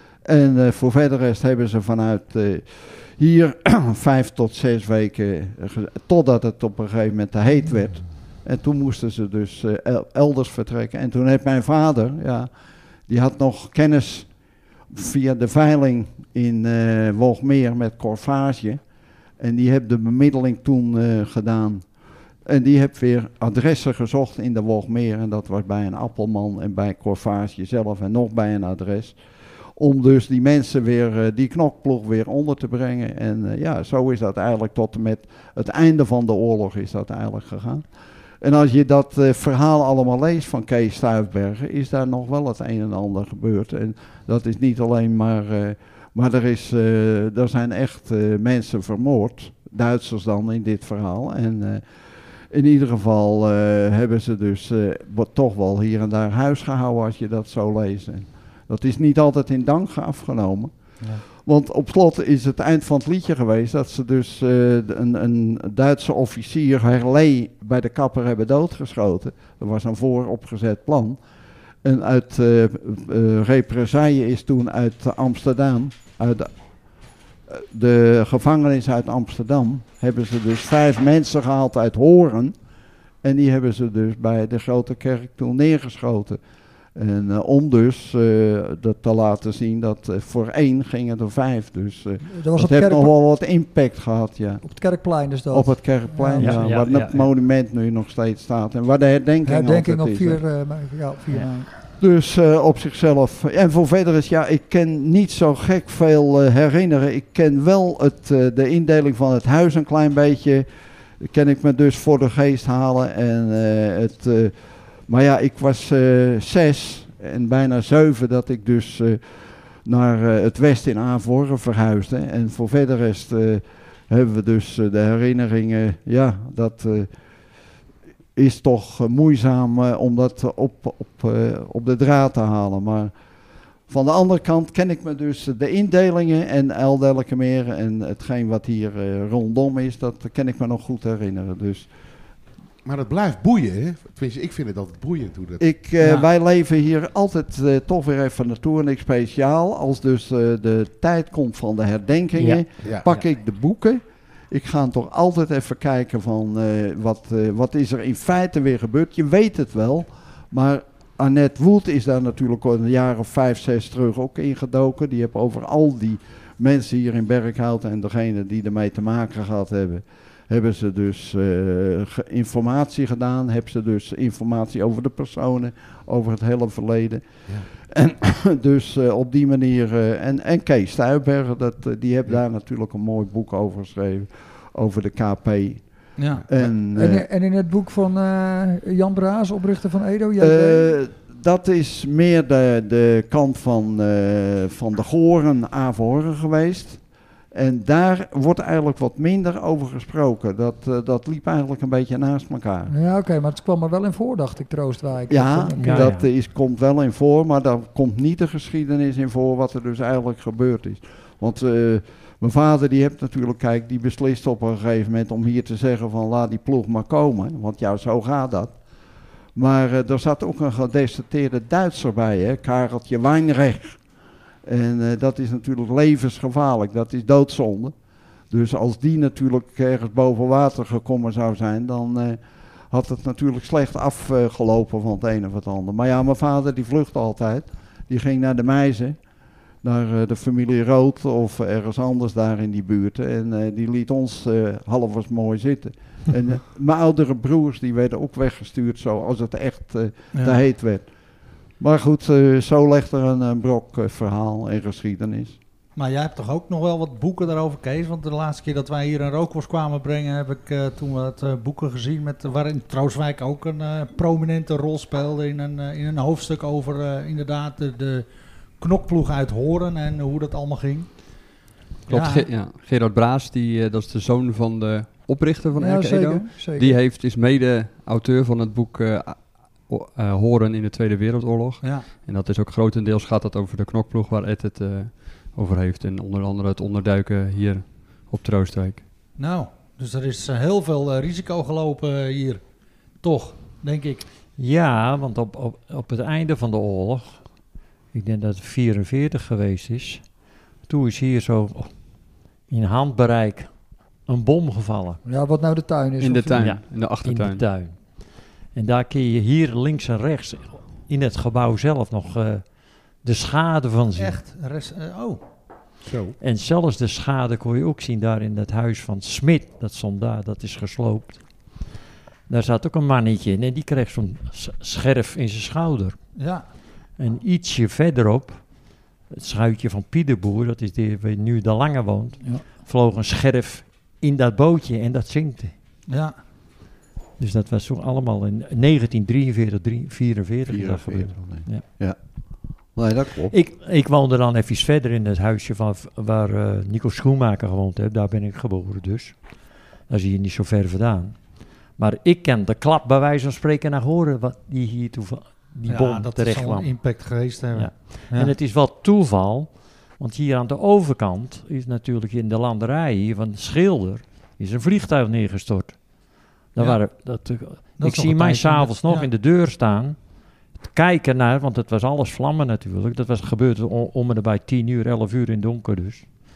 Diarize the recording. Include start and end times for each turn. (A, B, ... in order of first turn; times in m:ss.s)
0:00.2-0:12.5 A
0:13.1-0:14.3 A
0:14.9-0:18.8 A
0:19.4-0:21.8 A
0:22.4-0:29.2 A
0:29.8-0:37.8 A
0:38.4-0:51.8 A
0:52.5-1:00.7 A
1:01.4-1:11.2 A
1:11.8-1:16.5 A
1:17.5-1:22.6 A
1:23.2-1:26.4 A
1:26.9-1:34.6 A
1:32.3-1:33.1 B
1:34.6-1:36.7 B
1:35.5-1:40.4 A
1:36.4-1:37.3 C
1:39.4-1:41.7 B
1:42.0-1:50.6 A
1:51.2-1:54.5 A
1:55.1-1:59.2 A
1:59.8-2:07.1 A
2:08.4-2:13.1 A
2:13.9-2:21.9 A
2:22.8-2:25.6 D
2:25.6-2:57.3 A
2:26.0-2:26.3 E
2:32.4-2:32.6 C
2:32.8-2:33.2 D
2:57.8-3:07.2 A
3:06.2-3:06.4 E
3:06.9-3:10.9 B
3:10.4-3:17.0 A
3:17.5-3:22.9 A
3:22.9-3:26.1 B
3:25.3-3:38.8 A
3:25.8-3:26.3 C
3:39.6-3:44.0 A
3:44.6-3:47.9 A
3:48.5-3:52.4 A
3:52.9-3:59.2 A
3:59.8-4:11.1 A
4:10.3-4:10.6 E
4:11.8-4:15.6 A
4:16.0-4:28.3 E
4:28.8-4:31.2 E
4:32.1-4:49.0 F
4:32.1-4:32.4 E
4:35.8-4:37.0 B
4:41.8-4:42.1 E
4:49.4-4:52.6 E
4:53.2-4:54.2 E
4:54.6-4:57.4 C
4:58.1-5:00.2 C
5:00.9-5:01.9 C
5:02.7-5:03.7 C
5:04.3-5:05.2 C
5:05.2-5:06.7 B
5:06.2-5:07.6 F
5:06.6-5:08.1 C
5:08.7-5:14.4 C
5:14.2-5:15.4 E
5:16.0-5:16.4 D
5:16.4-5:21.4 C
5:22.5-5:26.2 C
5:26.4-5:26.6 E
5:27.2-5:28.6 C
5:29.3-5:35.7 C
5:36.1-5:36.4 E
5:37.4-5:41.9 C
5:40.6-5:42.2 A
5:42.9-5:43.6 A
5:43.5-5:49.4 C
5:50.1-5:51.4 C
5:52.0-6:06.0 C
5:55.9-5:58.5 E
6:06.7-6:10.2 C
6:07.8-6:09.3 E
6:10.9-6:16.3 C